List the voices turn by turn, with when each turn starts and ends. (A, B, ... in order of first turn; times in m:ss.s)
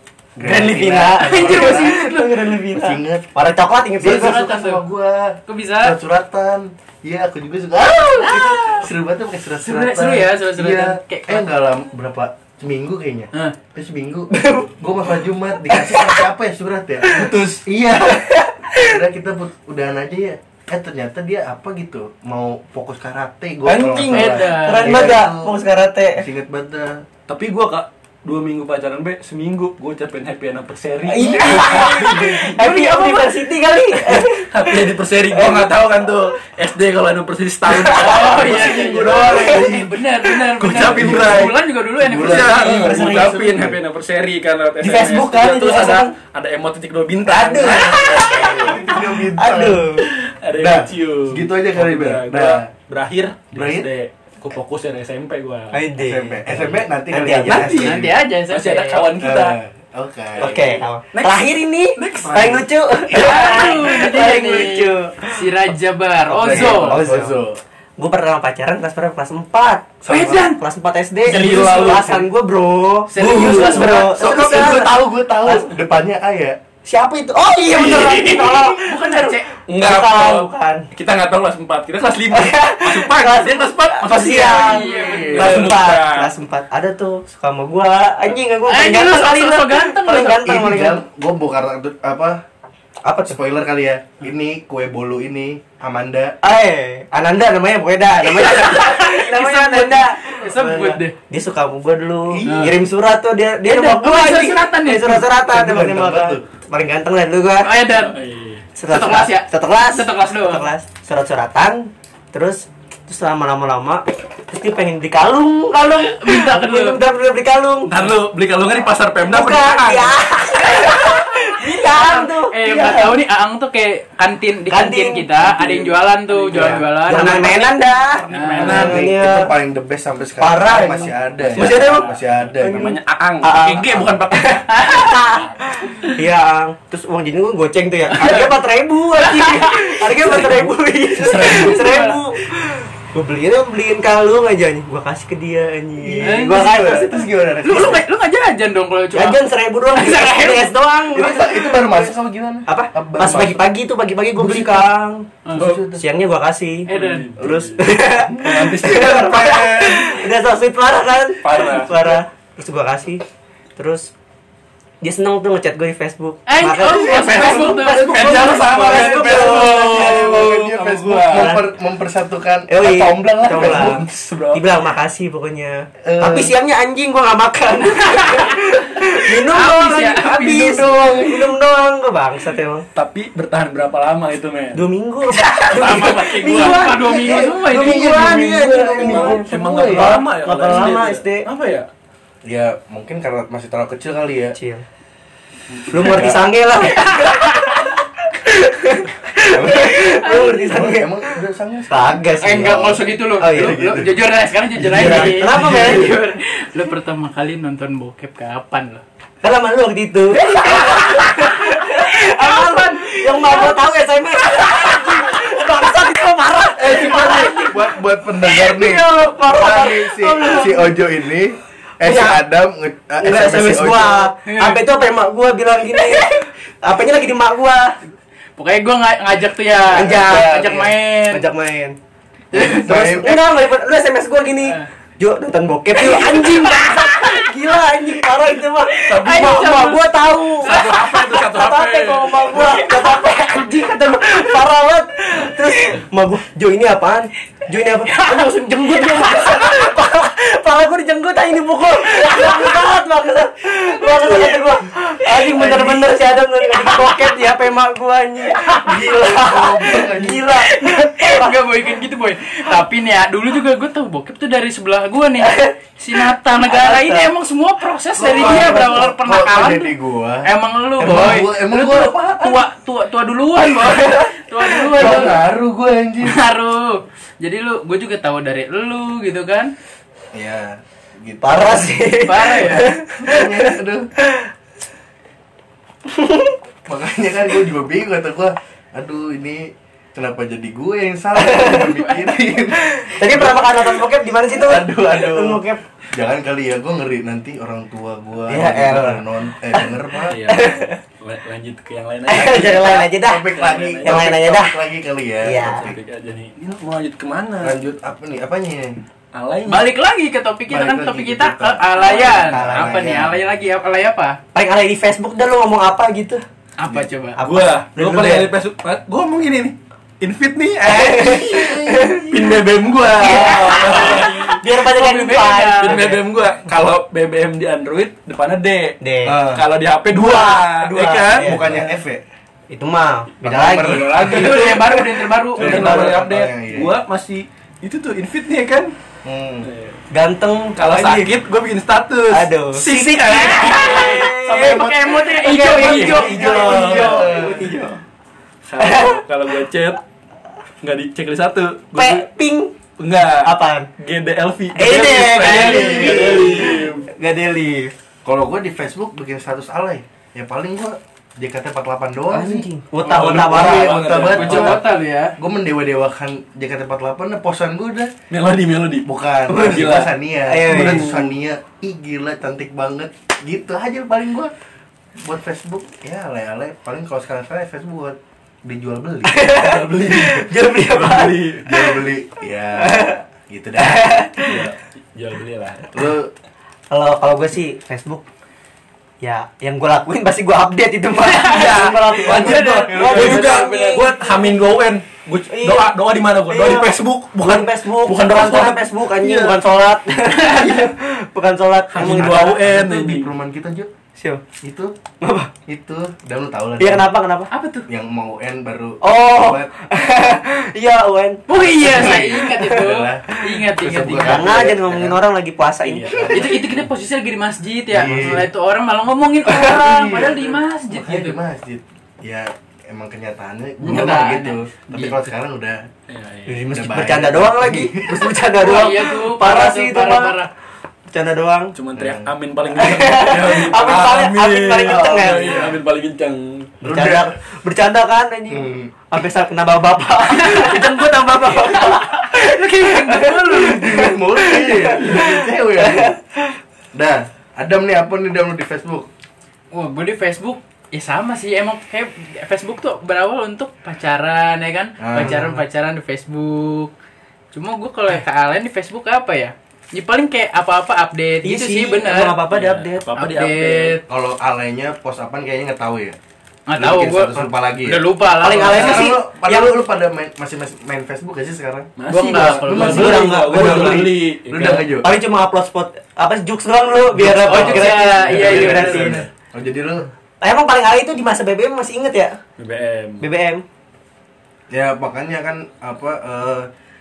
0:00.4-0:02.0 A
0:00.4-0:04.4 B
0:01.2-0:02.6 C
0:02.7-0:03.3 A
0:04.0-0:25.6 A
0:04.0-0:04.8 C
0:05.5-0:06.0 C
0:08.2-0:08.8 B
0:08.3-0:08.8 C
0:09.6-0:11.5 C
0:14.3-0:14.7 B
0:15.7-0:16.3 B
0:17.1-0:17.6 D
0:17.2-0:19.0 B
0:23.7-0:26.3 B
0:23.8-0:24.2 D
0:24.1-0:25.2 C
0:26.2-0:27.0 A
0:27.3-0:32.8 D
0:31.0-0:35.8 B
0:31.7-0:33.3 C
0:34.0-0:39.9 D
0:37.7-0:39.9 B
0:38.0-0:43.3 C
0:38.6-0:39.6 A
0:40.6-0:41.6 D
0:40.6-0:43.8 A
0:42.1-0:48.8 D
0:42.8-0:43.4 B
0:44.8-0:46.1 B
0:47.3-0:50.1 B
0:47.3-0:49.8 A
0:50.0-0:55.8 D
0:50.6-0:52.7 A
0:53.5-0:53.9 A
0:55.7-0:57.8 B
0:56.0-0:58.1 A
0:56.5-0:56.8 D
0:57.4-0:59.6 D
0:57.7-0:59.1 C
0:59.2-1:00.8 A
1:00.4-1:02.7 D
1:00.4-1:05.6 B
1:03.1-1:07.1 C
1:06.3-1:07.6 A
1:06.4-1:07.4 B
1:08.0-1:15.8 B
1:10.0-1:10.5 A
1:10.1-1:10.6 C
1:11.2-1:12.2 D
1:11.3-1:12.1 A
1:13.1-1:14.2 C
1:13.4-1:16.6 A
1:14.3-1:14.8 D
1:16.8-1:20.9 B
1:17.7-1:18.8 D
1:18.8-1:19.5 C
1:19.7-1:26.3 D
1:22.3-1:31.0 B
1:24.3-1:25.6 C
1:24.8-1:25.7 A
1:28.7-1:30.4 C
1:30.4-1:32.4 A
1:33.0-1:33.4 B
1:33.2-1:36.4 A
1:36.4-1:47.7 B
1:38.3-1:41.2 C
1:42.3-1:42.8 A
1:42.4-1:42.8 C
1:43.6-1:45.3 C
1:45.4-1:46.4 A
1:47.6-1:48.2 C
1:47.9-1:48.6 D
1:48.8-1:58.0 B
1:48.9-1:50.7 C
1:56.0-1:57.0 C
1:57.9-2:00.3 D
1:59.2-2:03.2 B
2:01.6-2:07.7 C
2:04.7-2:05.8 B
2:05.5-2:09.1 D
2:06.5-2:09.5 B
2:08.3-2:08.9 C
2:08.6-2:13.0 A
2:10.4-2:12.1 B
2:11.4-2:14.7 D
2:12.6-2:27.3 B
2:14.7-2:15.4 C
2:18.1-2:18.5 C
2:19.2-2:20.6 C
2:21.1-2:22.2 C
2:21.2-2:22.0 D
2:26.0-2:28.0 A
2:26.2-2:27.1 C
2:27.6-2:30.7 C
2:29.1-2:32.2 B
2:31.1-2:33.6 A
2:32.7-2:35.3 B
2:34.4-2:34.9 A
2:35.4-2:35.7 C
2:35.5-2:36.0 A
2:35.6-2:35.8 D
2:36.0-2:43.2 B
2:36.9-2:37.3 C
2:36.9-2:40.3 D
2:37.4-2:37.7 A
2:41.4-2:42.2 D
2:43.8-2:44.1 B
2:45.0-2:50.5 B
2:46.5-2:49.5 C
2:46.8-2:51.6 D
2:48.4-2:54.0 A
2:51.3-2:51.7 B
2:52.7-3:02.8 B
2:53.5-2:54.7 D
2:56.0-2:56.5 A
2:58.0-3:01.3 C
3:03.0-3:06.9 D
3:04.7-3:11.5 B
3:05.8-3:08.4 C
3:07.1-3:10.2 A
3:08.9-3:11.9 D
3:12.4-3:14.6 A
3:14.6-3:14.8 B
3:15.9-3:21.2 B
3:16.0-3:16.4 A
3:16.9-3:18.0 C
3:19.4-3:24.2 A
3:19.7-3:20.9 C
3:21.9-3:23.8 B
3:22.4-3:29.0 C
3:24.8-3:26.2 A
3:24.8-3:26.2 B
3:29.4-3:41.0 B
3:30.4-3:33.9 C
3:34.5-3:35.7 C
3:36.8-3:44.3 A
3:36.9-3:37.5 D
3:42.0-3:42.4 B
3:43.2-3:48.0 B
3:44.4-3:44.8 C
3:48.6-3:51.5 C
3:49.9-3:52.0 B
3:49.9-3:50.9 A
3:52.5-3:53.4 A
3:52.6-4:21.6 B
3:56.0-3:57.4 C
3:59.0-4:00.0 C
3:59.0-4:00.0 D
4:00.6-4:02.9 D
4:00.6-4:01.4 C
4:08.1-4:09.5 C
4:15.5-4:16.0 A
4:18.9-4:20.5 A
4:20.7-4:35.4 C
4:25.4-4:27.3 B
4:28.2-4:32.6 A
4:28.3-4:29.0 B
4:31.0-4:31.4 B
4:33.7-4:35.4 B
4:34.9-4:36.4 A
4:36.2-4:39.7 C
4:40.3-4:42.0 A
4:41.4-4:44.5 B
4:42.2-4:42.9 C
4:43.2-4:44.1 A
4:46.1-4:46.6 B
4:46.9-4:54.0 A
4:51.4-4:52.0 B
4:51.9-4:52.2 C
4:52.8-4:55.8 B
4:54.5-5:00.4 A
4:58.5-5:01.0 B
5:00.3-5:04.4 D
5:02.3-5:04.8 B
5:02.6-5:06.0 A
5:05.4-5:05.9 B
5:05.5-5:07.8 D
5:07.6-5:09.0 A
5:09.3-5:09.9 D
5:09.7-5:14.4 C
5:10.7-5:13.4 A
5:12.0-5:13.3 B
5:14.5-5:16.4 B
5:16.8-5:17.4 C
5:17.4-5:18.5 B
5:17.4-5:24.6 D
5:20.8-5:22.5 B
5:21.5-5:22.3 A
5:23.0-5:26.2 B
5:24.7-5:26.1 C
5:25.8-5:31.9 D
5:29.0-5:29.4 B
5:29.3-5:29.6 A
5:30.1-5:31.8 B
5:31.4-5:32.2 A
5:32.7-5:34.6 B
5:33.4-5:34.6 A
5:33.7-5:38.9 D
5:34.2-5:36.0 C
5:35.6-5:37.0 A
5:35.7-5:36.1 B
5:39.2-5:39.7 A
5:39.6-5:40.0 D
5:40.1-5:41.4 B
5:40.8-5:47.3 D
5:42.3-5:48.0 B
5:43.3-5:47.2 C
5:45.9-5:47.7 A
5:48.6-5:50.0 D
5:48.8-5:49.2 B
5:50.8-5:52.3 D
5:52.0-5:52.7 B
5:53.0-5:57.1 D
5:53.4-5:53.9 B
5:54.8-5:57.9 B
5:55.1-5:56.8 A
5:58.2-6:02.7 A
6:02.3-6:04.0 B
6:03.0-6:04.8 D
6:03.2-6:04.8 A
6:04.3-6:05.4 C
6:05.4-6:08.1 A
6:08.3-6:11.3 D
6:09.1-6:14.5 A
6:09.5-6:11.2 B
6:15.2-6:19.5 A
6:19.3-6:22.0 B
6:19.5-6:21.7 D
6:21.6-6:24.6 A
6:22.8-6:23.2 B
6:23.8-6:24.7 B
6:24.4-6:26.0 D
6:25.9-6:26.3 A
6:26.9-6:28.2 B
6:29.2-6:34.5 B
6:31.2-6:34.0 C
6:31.3-6:39.6 D
6:32.5-6:33.4 A
6:35.5-6:35.9 B
6:36.5-6:42.6 B
6:40.4-6:40.9 D
6:41.9-6:43.3 D
6:42.0-6:43.9 A
6:44.2-6:44.4 B
6:44.6-6:45.0 A
6:45.2-6:45.5 B
6:45.7-6:47.1 A
6:46.8-6:47.5 B
6:47.5-6:47.9 C
6:47.9-6:49.7 A
6:49.0-6:53.6 B
6:51.5-6:54.7 C
6:51.6-6:55.2 A
6:54.2-6:56.5 B
6:55.8-6:56.6 D
6:56.1-6:56.5 A
6:56.3-7:01.4 C
6:57.9-6:58.5 A
6:59.5-6:59.8 B
6:59.5-7:05.9 A
7:03.8-7:05.1 C
7:06.1-7:06.6 D
7:06.5-7:10.4 B
7:06.7-7:08.3 A
7:08.6-7:10.5 C
7:11.1-7:11.7 B
7:11.7-7:16.7 D
7:12.0-7:12.3 A
7:12.7-7:15.7 B
7:14.9-7:15.8 A
7:16.8-7:26.6 B
7:16.8-7:17.3 A
7:18.5-7:18.9 A
7:20.4-7:20.9 C
7:21.7-7:24.0 C
7:23.6-7:26.2 A
7:26.9-7:29.1 A
7:29.7-7:36.9 C
7:35.0-7:35.6 A
7:35.2-7:35.6 B
7:37.5-7:42.4 C
7:41.4-7:43.1 B
7:42.5-7:44.0 D
7:43.2-7:44.0 C
7:44.1-7:46.2 A
7:46.7-7:49.1 C
7:46.8-7:48.1 A
7:48.4-7:49.8 B
7:48.6-7:51.9 A
7:52.0-7:54.9 D
7:52.1-7:53.2 C
7:52.6-7:55.1 A
7:52.6-7:54.1 B
7:55.0-7:59.2 B
7:57.2-7:59.0 D
7:57.3-7:59.2 C
7:58.3-8:00.1 A
8:00.4-8:02.4 B
8:02.6-8:03.2 D
8:03.2-8:03.6 B
8:04.7-8:06.7 A